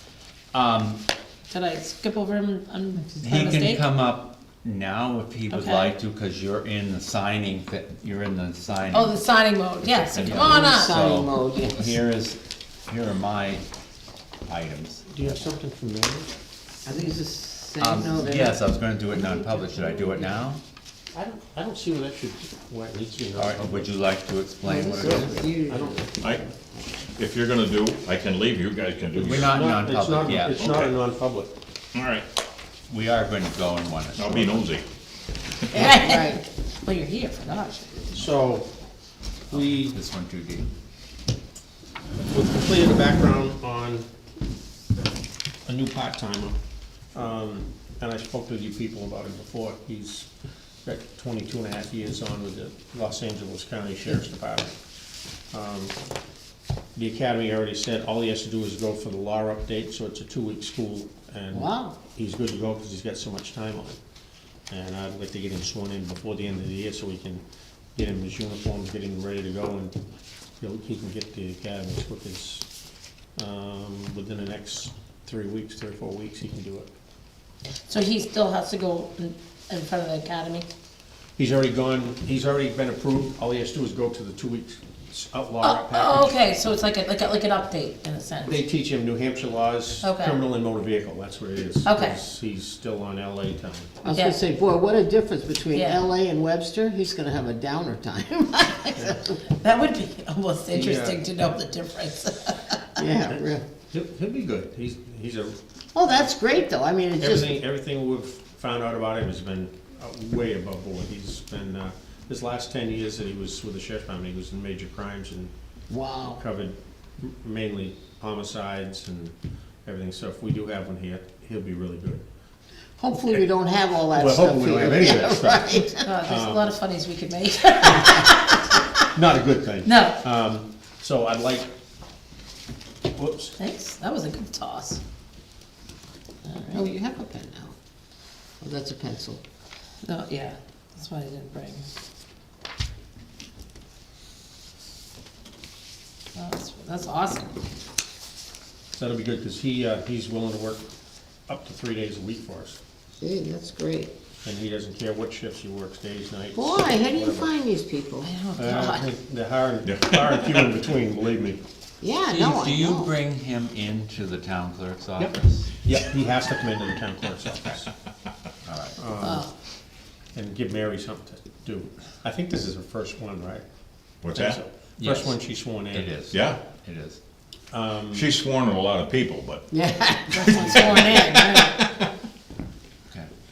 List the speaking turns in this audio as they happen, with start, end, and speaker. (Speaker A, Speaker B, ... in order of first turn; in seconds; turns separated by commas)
Speaker A: 0.5-1.0, Speaker B: 1.5-3.8, Speaker C: 3.0-3.4, Speaker A: 3.2-9.1, Speaker B: 5.5-5.9, Speaker B: 8.9-10.9, Speaker A: 10.1-13.6, Speaker C: 10.3-12.0, Speaker A: 14.4-15.2, Speaker D: 15.1-16.3, Speaker C: 16.9-20.2, Speaker A: 17.8-20.6, Speaker D: 21.1-23.9, Speaker A: 23.4-25.5, Speaker C: 24.6-26.5, Speaker D: 25.2-26.0, Speaker E: 27.1-29.7, Speaker A: 29.1-30.7, Speaker D: 29.4-31.5, Speaker E: 30.3-30.9, Speaker E: 31.9-32.2, Speaker A: 32.9-34.6, Speaker E: 34.1-34.9, Speaker B: 35.7-38.1, Speaker C: 35.7-36.4, Speaker D: 38.1-38.7, Speaker D: 39.5-40.0, Speaker A: 39.5-40.7, Speaker D: 42.3-44.0, Speaker D: 45.6-46.5, Speaker D: 47.1-50.3, Speaker D: 50.8-54.8, Speaker D: 55.5-56.0, Speaker D: 57.0-64.0, Speaker C: 61.5-62.0, Speaker D: 64.7-67.4, Speaker D: 67.9-69.9, Speaker D: 70.6-72.7, Speaker D: 73.3-76.9, Speaker B: 77.9-80.7, Speaker D: 81.4-86.4, Speaker B: 85.6-88.6, Speaker D: 88.4-94.0, Speaker B: 90.0-90.4, Speaker B: 91.8-92.2, Speaker C: 94.0-99.4, Speaker B: 94.1-94.4, Speaker B: 95.7-96.0, Speaker B: 99.5-102.8, Speaker D: 100.7-101.2, Speaker C: 103.0-103.7, Speaker D: 103.8-105.6, Speaker C: 105.9-107.6, Speaker D: 107.2-115.5, Speaker C: 115.9-116.4, Speaker D: 116.3-122.2, Speaker C: 123.0-126.1, Speaker D: 124.1-126.7, Speaker B: 126.0-128.8, Speaker D: 129.1-131.7, Speaker B: 129.8-130.2, Speaker D: 133.1-133.6, Speaker B: 133.6-135.0, Speaker B: 136.4-136.8, Speaker C: 136.7-137.8, Speaker C: 138.6-139.4, Speaker B: 140.0-141.9, Speaker B: 146.3-147.6, Speaker D: 148.9-150.9, Speaker D: 151.5-152.8, Speaker C: 153.2-154.1, Speaker D: 154.4-157.5, Speaker C: 156.5-158.3, Speaker B: 158.2-159.1, Speaker D: 158.6-161.6, Speaker E: 159.8-160.7, Speaker C: 162.0-163.1, Speaker A: 162.2-165.7, Speaker D: 165.2-167.9, Speaker A: 168.6-169.0, Speaker D: 168.9-169.4, Speaker B: 169.2-169.5, Speaker D: 170.3-173.6, Speaker E: 174.2-174.6, Speaker D: 174.3-176.1, Speaker A: 175.0-175.4, Speaker A: 175.9-177.2, Speaker E: 176.3-176.6, Speaker D: 177.7-178.3, Speaker E: 178.1-179.6, Speaker C: 179.7-182.0, Speaker B: 180.3-181.6, Speaker E: 180.4-181.9